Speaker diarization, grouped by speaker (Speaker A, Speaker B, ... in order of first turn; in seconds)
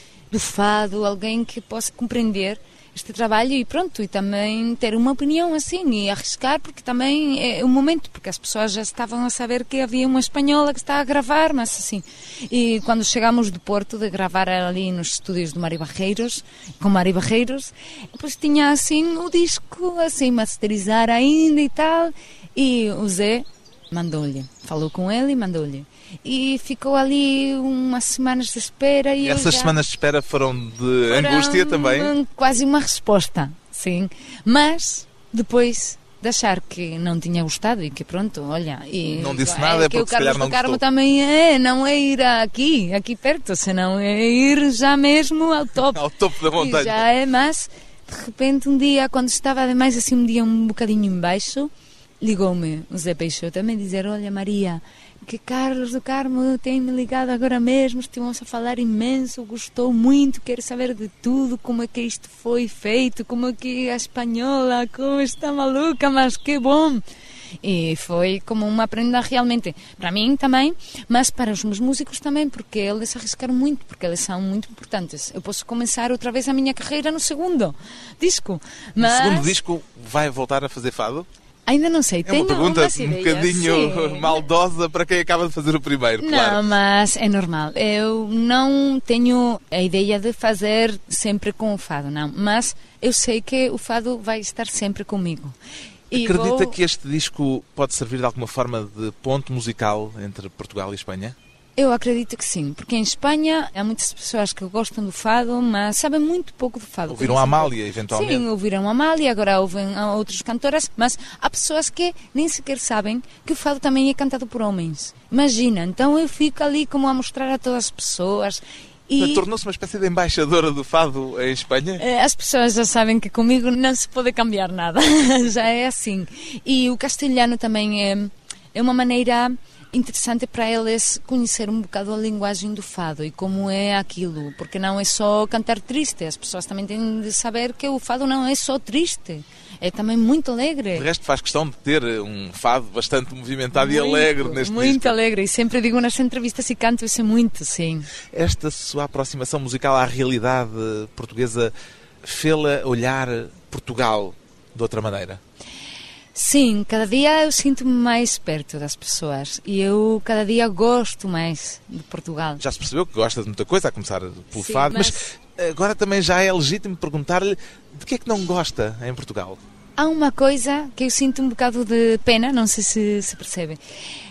Speaker A: 0.3-29.7, 31.1-46.0, 46.5-67.0, 67.6-79.5, 81.7-84.4, 86.2-95.6, 96.1-96.8, 101.8-119.5, 122.0-141.1, 143.7-148.1, 156.3-162.6, 164.5-165.2, 170.0-173.8
Speaker B: 29.2-32.1, 39.1-40.8, 45.9-47.0, 79.0-81.3, 82.2-86.7, 96.1-101.3, 107.1-108.5, 119.2-122.0, 140.9-145.2, 148.3-151.7, 152.2-155.4, 162.6-169.6